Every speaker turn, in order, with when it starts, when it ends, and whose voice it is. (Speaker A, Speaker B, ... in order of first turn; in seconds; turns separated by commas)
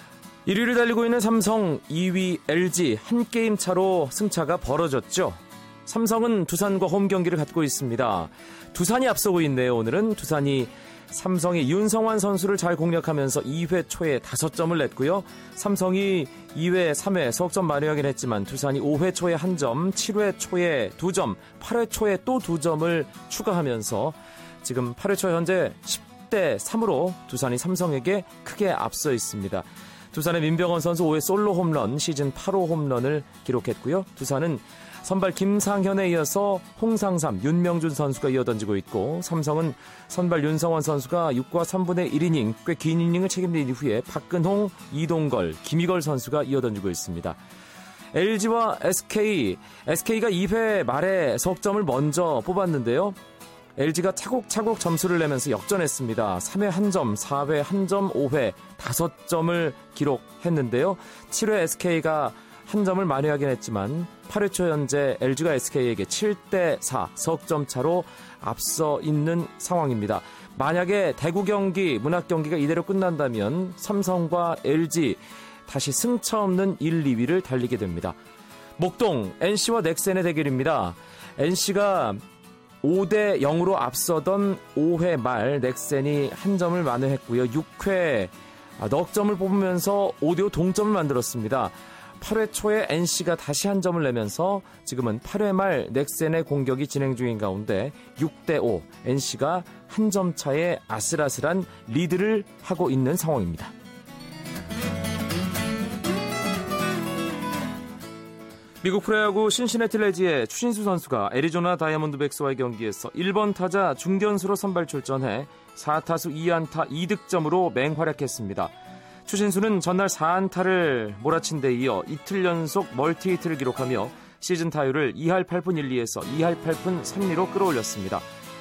Speaker A: 0.5-47.4, Speaker A: 48.1-53.2, Speaker A: 53.8-78.2, Speaker A: 78.8-82.2, Speaker A: 82.8-103.7, Speaker A: 108.8-118.7, Speaker A: 119.3-128.3